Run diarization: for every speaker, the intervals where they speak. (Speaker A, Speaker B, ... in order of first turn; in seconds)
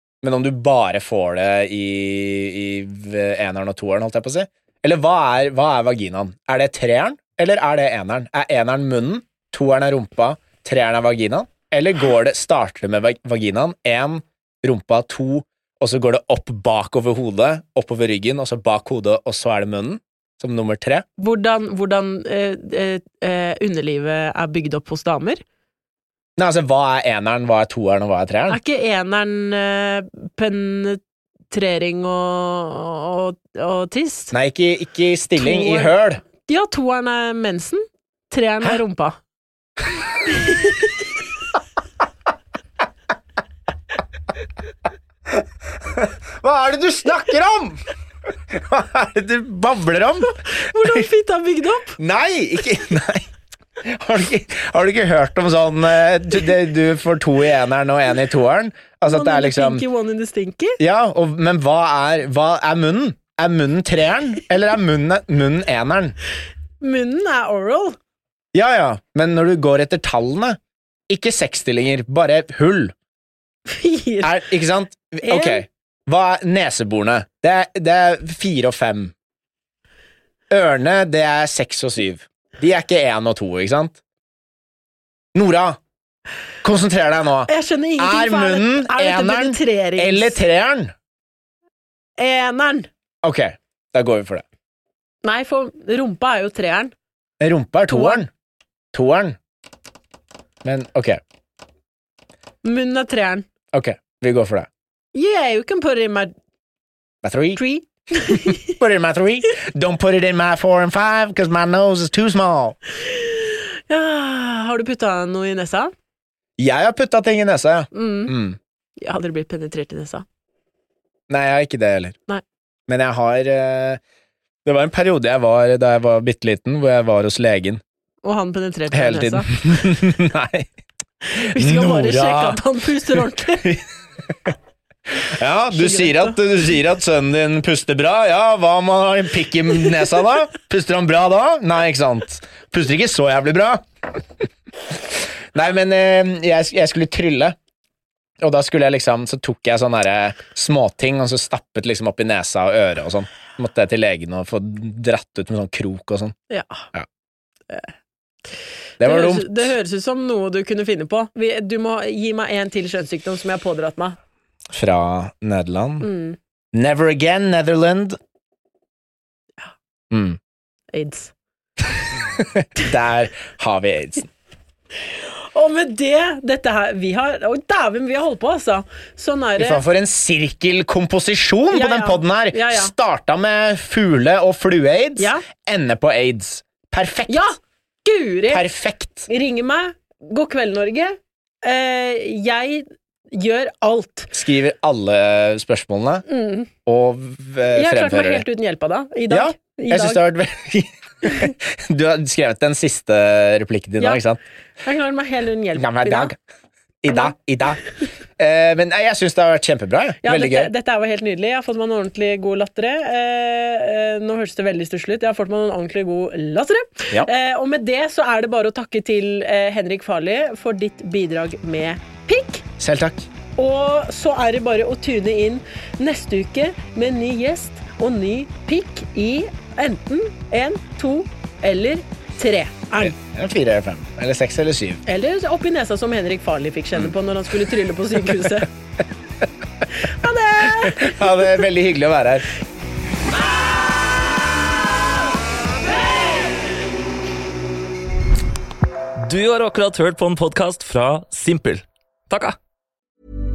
Speaker A: 0.2-21.1, 26.4-28.6, 34.3-36.2, 45.9-47.8, 48.5-51.1, 52.0-59.8, 60.8-66.2, 68.5-72.9, 74.2-79.1, 80.5-84.0, 85.3-85.8, 86.6-90.9, 93.2-94.4, 97.4-98.3, 98.9-99.4, 100.6-101.2, 103.7-104.7, 107.2-107.6, 108.3-112.8, 116.6-118.6, 121.3-122.2, 122.9-124.0, 124.7-127.8, 128.9-130.7, 131.4-134.6, 135.1-144.2, 144.9-147.6, 148.4-156.3, 159.0-159.7, 164.7-166.1, 166.7-168.2, 170.1-170.4, 172.3-174.3, 179.6-187.5, 188.5-189.3, 194.3-196.2, 196.8-198.4, 199.3-204.4, 205.8-206.4, 207.0-210.7, 222.8-223.3, 233.0-235.0, 240.8-242.5
Speaker B: 21.2-25.4, 28.5-34.3, 35.4-39.2, 40.3-40.9, 50.5-52.0, 59.0-60.8, 66.8-68.0, 73.7-74.4, 75.2-75.7, 87.5-90.4, 92.2-92.9, 95.2-96.9, 97.9-98.2, 102.6-103.5, 105.2-106.3, 107.5-108.7, 113.1-115.9, 117.9-118.3, 119.0-120.2, 128.2-129.6, 131.3-133.8, 135.7-136.4, 156.5-156.8, 159.0-164.2, 166.0-166.4, 170.9-171.3, 175.0-179.8, 181.7-182.9, 185.2-185.4, 187.3-188.7, 189.3-194.3, 196.3-196.7, 197.7-200.2, 204.8-206.3, 210.2-222.7, 223.6-233.2, 235.1-238.7, 240.0-241.6
Speaker C: 249.2-252.6